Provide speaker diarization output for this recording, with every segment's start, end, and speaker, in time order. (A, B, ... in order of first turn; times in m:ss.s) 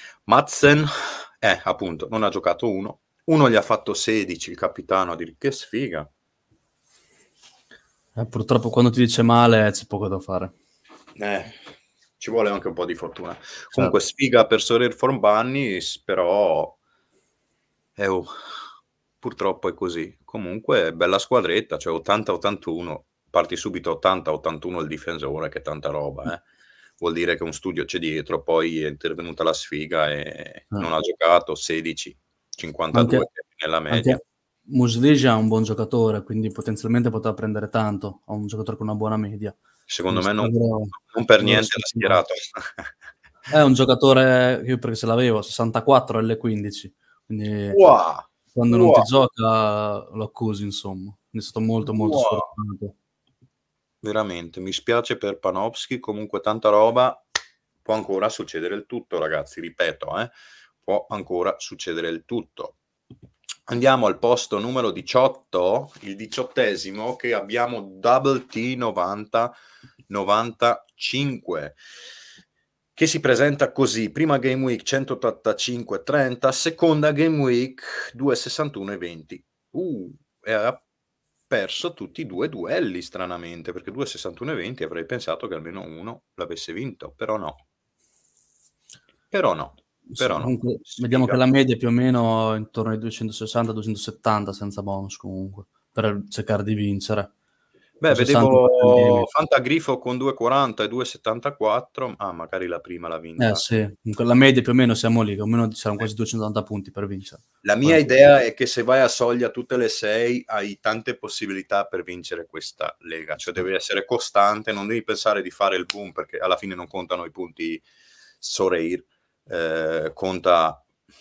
0:00.2-0:06.1 A
0:08.2-0:10.5 B
0:11.2-0:11.6 A
0:12.2-0:16.8 A
0:18.0-0:18.3 A
0:19.2-0:26.4 A
0:27.0-0:34.2 A
0:32.9-0:33.3 B
0:33.9-0:39.6 B
0:39.9-0:42.9 A
0:40.1-0:42.2 B
0:43.5-0:47.8 B
0:47.7-0:49.1 A
0:48.5-0:52.9 B
0:52.0-0:52.4 A
0:54.0-0:57.2 A
0:57.8-1:02.8 A
1:03.7-1:09.5 A
1:10.1-1:11.8 A
1:13.0-1:20.8 A
1:21.5-1:27.6 A
1:29.3-1:31.4 A
1:30.1-1:37.3 B
1:38.0-1:43.6 A
1:38.1-1:39.3 B
1:43.4-1:48.0 B
1:47.6-1:57.8 A
1:58.4-2:00.8 A